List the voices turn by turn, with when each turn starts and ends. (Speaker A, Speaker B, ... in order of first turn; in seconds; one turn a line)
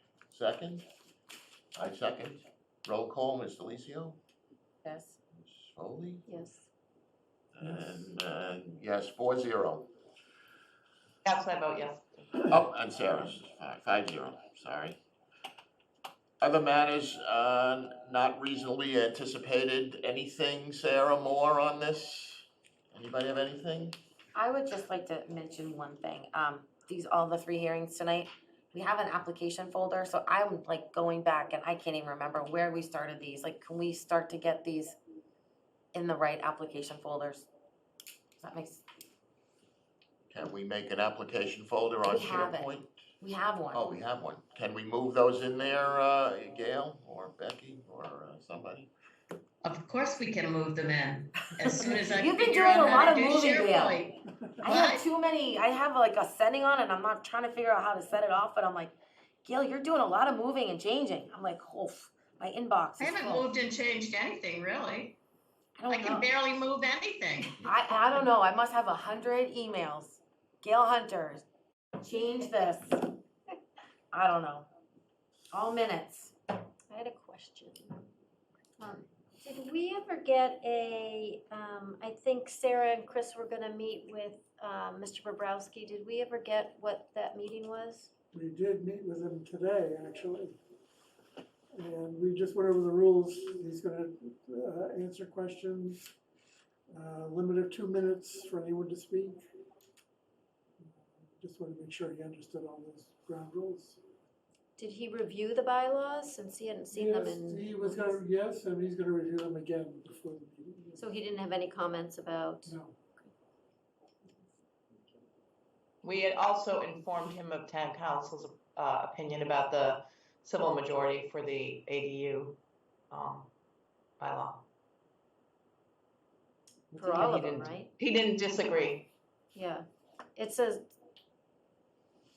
Speaker A: 0.3-0.8
Speaker A: 1.8-4.2
Speaker B: 4.8-5.2
Speaker A: 5.4-6.2
Speaker C: 6.3-6.7
Speaker A: 7.5-9.9
Speaker D: 7.6-8.0
Speaker E: 11.2-12.1
Speaker A: 12.4-15.0
Speaker A: 16.4-24.0
Speaker B: 24.4-35.0
Speaker B: 35.9-37.5
Speaker B: 38.4-38.8
Speaker A: 40.3-43.0
Speaker B: 42.1-43.9
Speaker A: 43.7-48.9
Speaker F: 49.6-55.0
Speaker B: 52.2-54.0
Speaker B: 54.6-63.5
Speaker F: 63.0-65.2
Speaker B: 65.8-66.3
Speaker F: 65.9-67.6
Speaker B: 67.6-71.4
Speaker B: 72.0-73.1
Speaker B: 74.1-74.7
Speaker B: 75.5-76.3
Speaker C: 76.9-78.0
Speaker C: 78.8-88.1
Speaker D: 88.3-90.6
Speaker D: 91.7-96.1
Speaker D: 96.9-99.4
Speaker D: 100.8-104.0
Speaker C: 104.8-108.2
Speaker D: 106.9-111.1
Speaker C: 111.0-113.3
Speaker D: 112.7-113.0
Speaker E: 116.0-122.6
Speaker E: 123.1-123.5
Speaker E: 124.2-124.6
Speaker E: 126.9-129.1
Speaker C: 127.0-127.9
Speaker C: 129.5-130.9